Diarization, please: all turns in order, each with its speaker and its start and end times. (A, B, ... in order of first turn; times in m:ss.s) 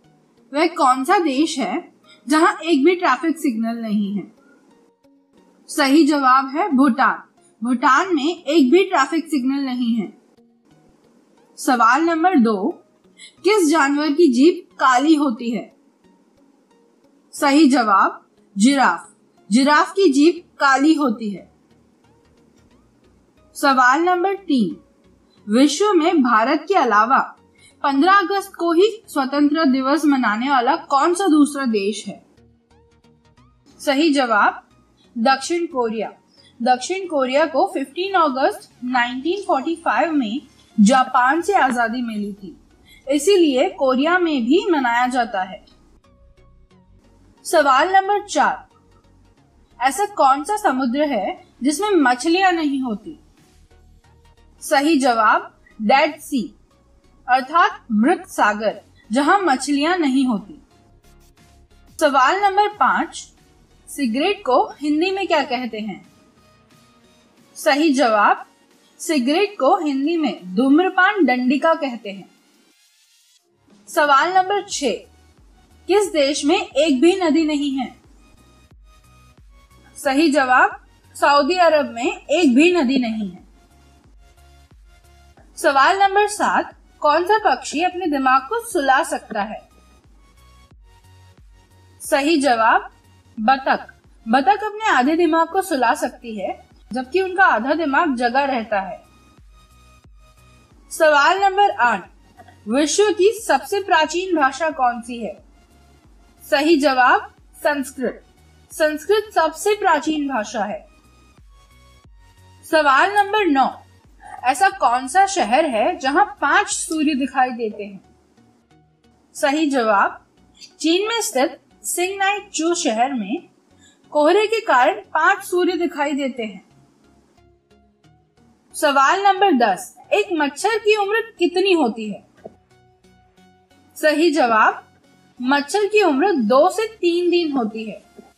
0:00.5-0:04.3 A
0:05.7-0:10.1 A
0:11.6-0:12.8 A
0:13.4-0:15.7 A
0:17.3-0:21.5 A
0:23.5-0:24.8 A
0:25.5-0:27.3 A
0:27.8-0:32.2 A
0:33.8-0:34.6 A
0:35.2-0:45.6 A
0:47.4-0:48.6 A
0:49.8-0:53.2 A
0:54.6-0:56.5 A
0:57.3-1:00.6 A
1:02.0-1:03.3 A
1:03.9-1:06.0 A
1:07.5-1:08.4 A
1:09.0-1:12.3 A
1:13.9-1:15.0 A
1:15.8-1:17.9 A
1:20.0-1:23.4 A
1:25.6-1:29.6 A
1:32.0-1:32.9 A
1:33.4-1:39.0 A
1:40.9-1:42.1 A
1:42.6-1:45.4 A
1:46.4-1:50.8 A
1:52.6-1:53.7 A
1:54.4-1:58.0 A
1:59.3-2:00.2 A
2:00.8-2:03.4 A
2:04.1-2:06.6 A
2:08.7-2:12.2 A
2:14.0-2:14.8 A
2:15.4-2:18.0 A